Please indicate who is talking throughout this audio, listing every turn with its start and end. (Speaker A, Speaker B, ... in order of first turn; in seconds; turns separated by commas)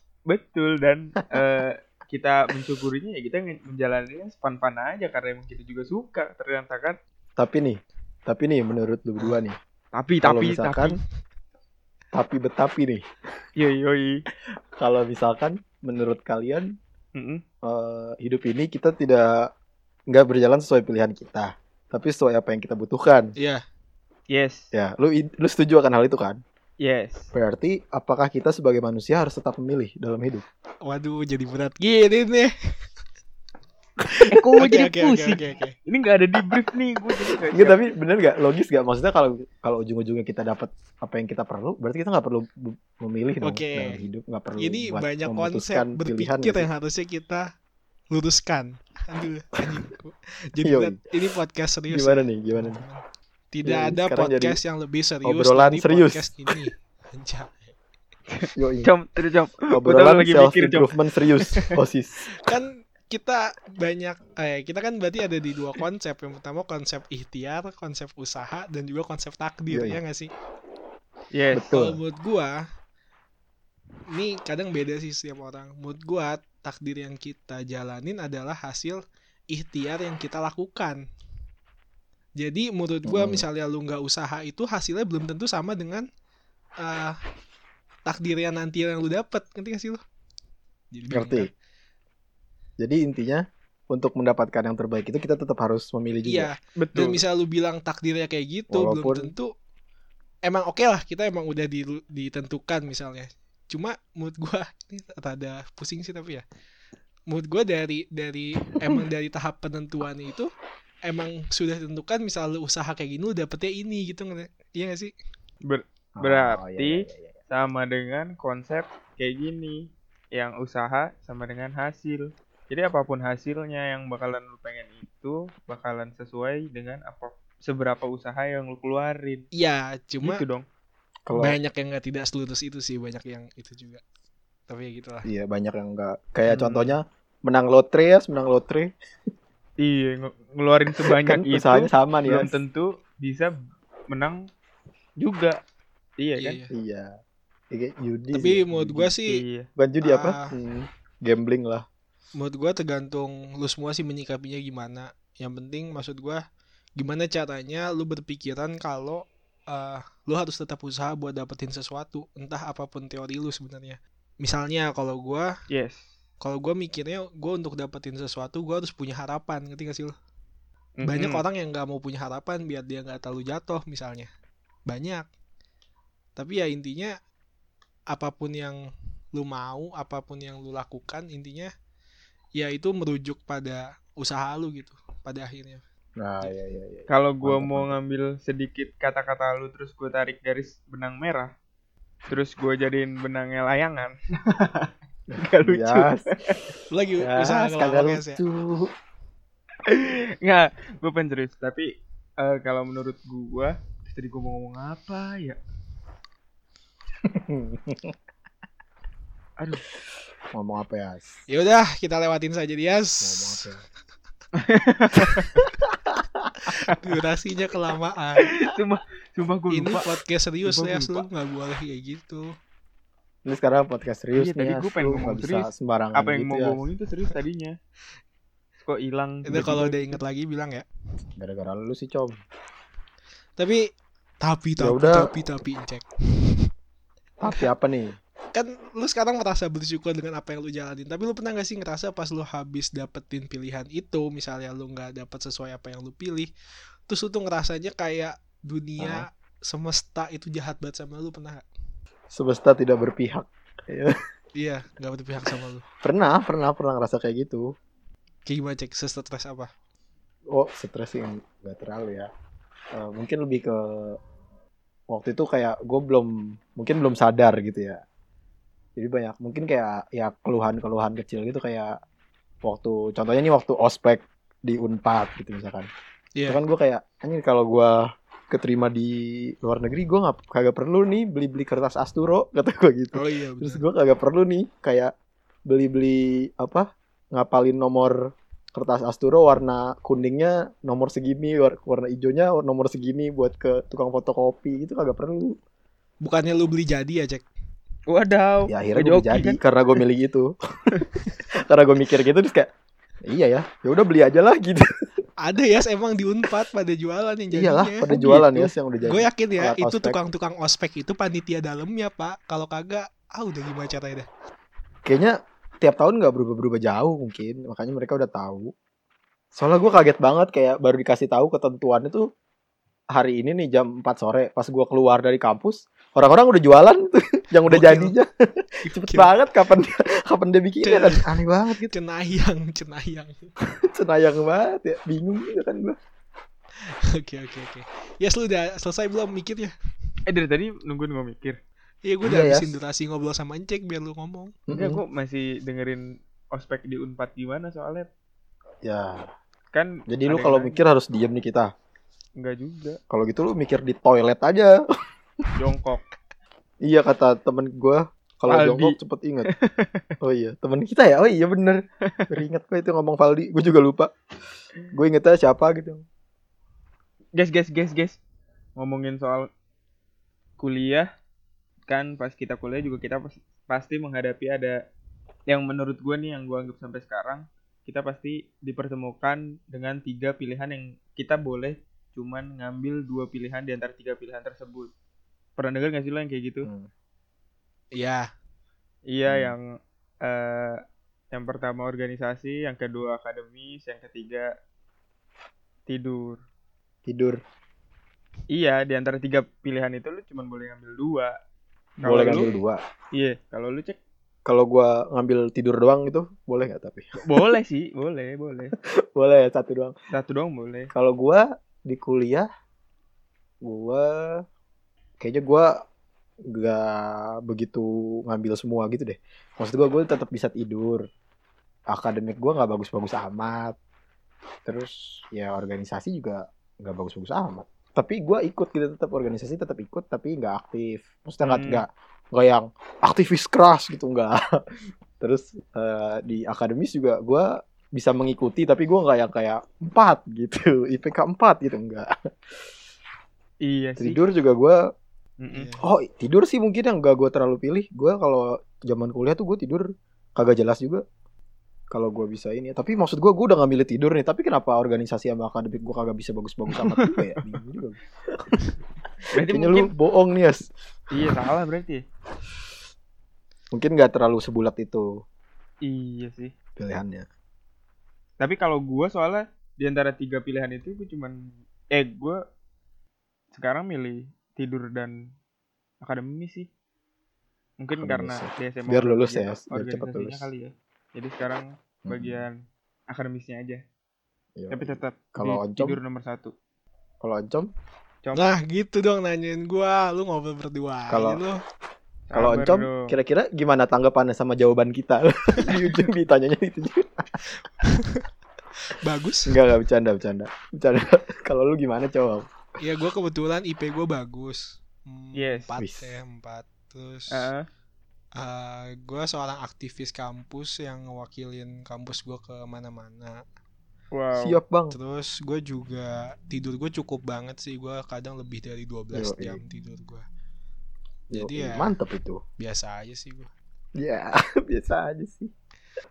Speaker A: 0.2-7.0, Speaker B: 7.4-9.6, Speaker A: 9.9-11.0, Speaker B: 10.2-11.0, Speaker B: 12.1-13.0, Speaker A: 13.6-14.2, Speaker B: 14.8-16.7, Speaker A: 17.1-17.4, Speaker B: 17.6-19.5, Speaker B: 20.1-23.3, Speaker C: 23.4-23.6, Speaker A: 24.3-24.6, Speaker B: 24.7-26.4, Speaker A: 26.8-27.3, Speaker B: 27.3-30.4, Speaker C: 30.8-32.5, Speaker C: 34.0-35.7, Speaker A: 34.3-37.8, Speaker B: 37.5-46.7, Speaker C: 43.4-44.0, Speaker C: 44.6-47.5, Speaker C: 48.1-57.7, Speaker B: 50.6-51.0, Speaker B: 51.9-52.8, Speaker B: 53.6-54.6, Speaker B: 55.2-56.3, Speaker A: 58.3-61.8, Speaker B: 58.5-58.9, Speaker B: 59.7-62.3, Speaker C: 62.4-70.3, Speaker B: 69.7-70.0, Speaker A: 71.3-71.7, Speaker B: 71.5-72.0, Speaker C: 71.7-72.7, Speaker C: 74.1-79.0, Speaker C: 79.5-81.0, Speaker C: 82.4-86.1, Speaker B: 83.0-83.4, Speaker C: 86.8-87.2, Speaker C: 88.0-90.0, Speaker C: 90.9-91.5, Speaker B: 91.1-91.5, Speaker B: 92.8-96.5, Speaker C: 96.2-99.5, Speaker A: 96.8-97.2, Speaker B: 98.7-99.3, Speaker C: 100.5-106.4, Speaker C: 107.3-110.5, Speaker C: 111.0-115.1, Speaker A: 115.6-129.4, Speaker B: 116.2-117.3, Speaker C: 129.5-130.4, Speaker A: 130.2-130.7, Speaker B: 131.2-131.6, Speaker C: 131.3-134.0, Speaker C: 134.7-135.3, Speaker B: 135.2-138.9, Speaker A: 136.5-137.0, Speaker A: 139.8-143.5, Speaker B: 141.0-142.5, Speaker A: 144.1-144.4, Speaker A: 145.2-145.6, Speaker A: 146.2-146.6, Speaker C: 146.4-146.7, Speaker B: 146.7-147.1, Speaker B: 147.7-149.1, Speaker C: 148.3-149.4, Speaker A: 149.3-149.7, Speaker B: 149.8-151.8, Speaker C: 150.0-150.5, Speaker C: 152.4-156.4, Speaker C: 157.0-165.6, Speaker A: 165.7-166.1, Speaker C: 166.4-170.1, Speaker A: 171.0-171.4, Speaker C: 171.0-174.3, Speaker C: 174.9-175.3, Speaker C: 176.3-177.2, Speaker C: 178.1-181.7, Speaker C: 182.6-185.8, Speaker B: 186.2-187.9, Speaker A: 187.1-191.5, Speaker A: 192.3-196.7, Speaker B: 195.3-196.2, Speaker C: 196.9-198.4, Speaker B: 197.2-198.9, Speaker A: 199.8-205.6, Speaker B: 207.2-208.1, Speaker A: 209.6-209.8, Speaker B: 210.5-211.4, Speaker C: 211.5-213.6, Speaker B: 213.2-213.8, Speaker A: 214.5-215.6, Speaker B: 215.8-216.4, Speaker C: 216.7-218.5, Speaker A: 218.4-220.1, Speaker C: 219.7-222.6, Speaker A: 220.6-221.2, Speaker B: 223.4-226.8, Speaker A: 224.3-227.8, Speaker A: 228.8-230.2, Speaker C: 229.4-230.8, Speaker B: 231.4-232.4, Speaker C: 233.6-236.7, Speaker B: 234.8-235.3, Speaker B: 237.4-238.2, Speaker C: 238.5-246.5, Speaker C: 247.1-251.6, Speaker B: 249.0-249.2, Speaker B: 252.3-254.1, Speaker C: 254.6-255.8, Speaker B: 256.0-257.7, Speaker C: 258.4-259.7, Speaker B: 260.5-262.3, Speaker B: 262.9-264.2, Speaker B: 265.1-268.0, Speaker B: 268.9-271.9, Speaker B: 272.6-275.9, Speaker B: 276.5-285.1, Speaker C: 283.1-283.8, Speaker B: 285.7-288.2, Speaker B: 288.7-295.6, Speaker C: 296.2-297.4, Speaker A: 298.1-299.6, Speaker B: 298.7-302.7, Speaker B: 303.2-304.9, Speaker C: 305.4-314.3, Speaker B: 307.5-310.2, Speaker B: 315.0-318.7, Speaker B: 319.5-322.2, Speaker B: 323.1-331.9, Speaker C: 327.7-328.1, Speaker C: 328.9-329.3, Speaker C: 330.8-333.5, Speaker B: 333.8-336.0, Speaker C: 336.9-339.7, Speaker A: 340.2-341.6, Speaker C: 342.0-344.5, Speaker B: 342.2-342.8, Speaker B: 344.7-345.0, Speaker A: 344.7-348.1, Speaker B: 348.8-349.3, Speaker A: 349.7-350.8, Speaker B: 350.1-351.7, Speaker A: 352.4-353.0, Speaker B: 353.1-354.8, Speaker A: 355.5-356.0, Speaker B: 356.8-359.5, Speaker A: 358.5-360.1, Speaker B: 360.2-364.1, Speaker B: 364.9-366.0, Speaker A: 367.3-368.2, Speaker A: 368.8-369.5, Speaker A: 370.6-371.1, Speaker A: 371.9-374.8, Speaker A: 375.5-384.9, Speaker A: 385.6-386.7, Speaker B: 386.6-386.9, Speaker C: 387.9-388.3, Speaker A: 389.1-394.5, Speaker B: 389.3-389.5, Speaker A: 395.9-396.4, Speaker B: 397.1-397.4, Speaker A: 398.5-401.3, Speaker A: 402.0-402.6, Speaker B: 402.0-402.8, Speaker A: 403.1-404.0, Speaker B: 404.4-407.5, Speaker A: 407.2-408.7, Speaker B: 408.8-409.9, Speaker A: 410.1-410.9, Speaker B: 410.9-412.5, Speaker B: 413.6-414.4, Speaker B: 415.2-415.8, Speaker B: 416.5-421.0, Speaker B: 421.9-423.8, Speaker B: 424.6-434.4, Speaker A: 431.4-431.8, Speaker B: 435.2-442.1, Speaker A: 443.6-444.2, Speaker B: 444.0-444.8, Speaker A: 445.4-445.7, Speaker C: 445.5-445.8, Speaker B: 445.8-451.0, Speaker B: 451.9-458.8, Speaker A: 456.7-457.2, Speaker A: 459.3-459.9, Speaker B: 459.4-460.7, Speaker A: 461.1-462.0, Speaker B: 463.7-465.2, Speaker A: 465.8-466.5, Speaker B: 466.8-467.3, Speaker A: 468.4-471.4, Speaker A: 471.9-472.4, Speaker A: 473.5-475.3, Speaker A: 476.0-476.7, Speaker A: 477.8-482.6, Speaker B: 478.0-480.5, Speaker B: 482.1-482.4, Speaker A: 483.1-483.8, Speaker B: 484.6-486.0, Speaker A: 484.7-486.5, Speaker B: 487.2-487.7, Speaker C: 488.3-491.6, Speaker B: 491.1-491.4, Speaker A: 492.3-493.1, Speaker B: 492.3-497.3, Speaker C: 497.8-498.2, Speaker C: 498.9-499.5, Speaker B: 499.4-502.5, Speaker C: 502.8-507.5, Speaker A: 505.3-505.7, Speaker B: 505.8-506.2, Speaker A: 507.3-507.7, Speaker C: 508.4-513.4, Speaker A: 514.1-514.6, Speaker B: 514.4-515.0, Speaker C: 514.9-520.2, Speaker B: 519.1-519.6, Speaker C: 521.3-521.9, Speaker B: 521.3-522.4, Speaker C: 522.6-523.5, Speaker B: 524.0-525.5